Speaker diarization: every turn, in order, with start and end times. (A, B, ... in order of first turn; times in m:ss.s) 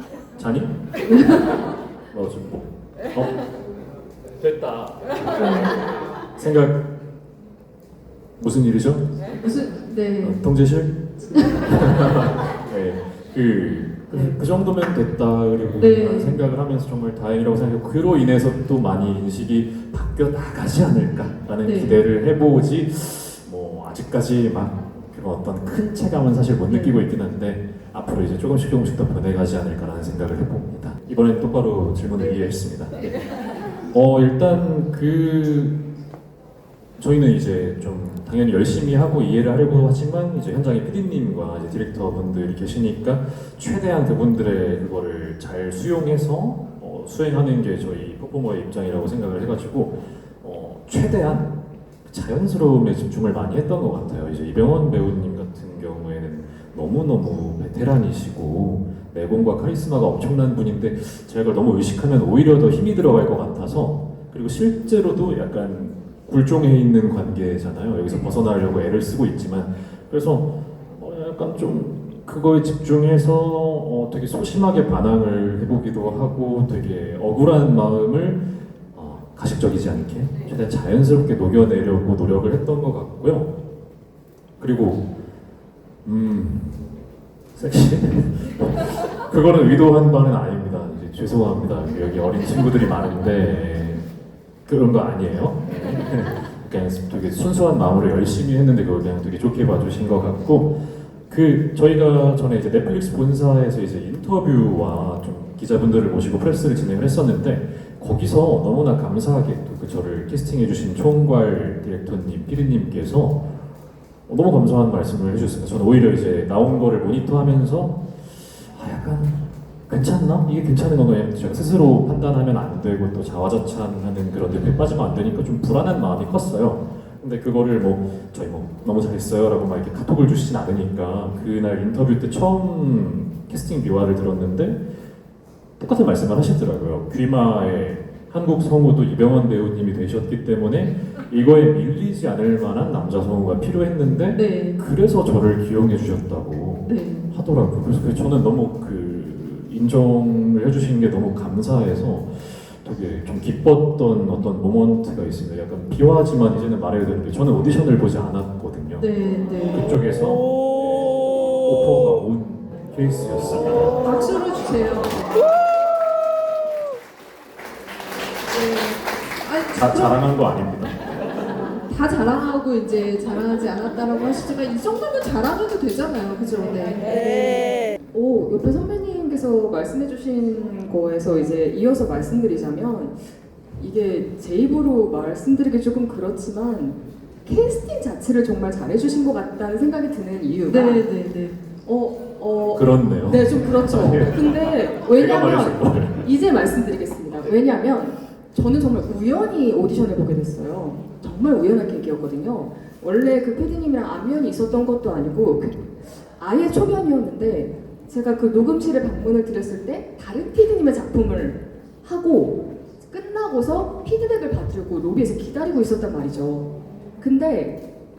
0:00.4-0:00.7 A
0:01.0-0:01.6 B
0:02.1-0:03.4 A
0:04.4-0:05.0 A
0:05.3-0:05.8 B
0:06.4-0:06.9 A
0:08.4-0:09.1 A
0:09.4-0:10.4 B
0:10.2-0:35.8 A
0:14.1-0:14.4 B
0:15.8-0:16.4 B
0:21.6-0:22.0 B
0:37.0-1:23.5 A
1:24.6-1:25.1 A
1:26.0-1:27.0 A
1:27.6-1:34.1 A
1:34.7-1:53.4 A
1:54.3-2:14.8 A
2:15.8-2:39.1 A
2:24.3-2:24.8 B
2:26.8-2:27.3 B
2:39.0-2:40.0 B
2:39.7-2:44.0 A
2:44.0-2:45.3 B
2:48.5-2:50.3 B
2:49.7-2:51.0 A
2:51.8-2:57.4 B
2:58.1-3:03.2 C
3:03.8-3:11.0 C
3:10.7-3:11.6 B
3:11.8-3:37.8 C
3:12.8-3:14.5 A
3:15.1-3:16.3 A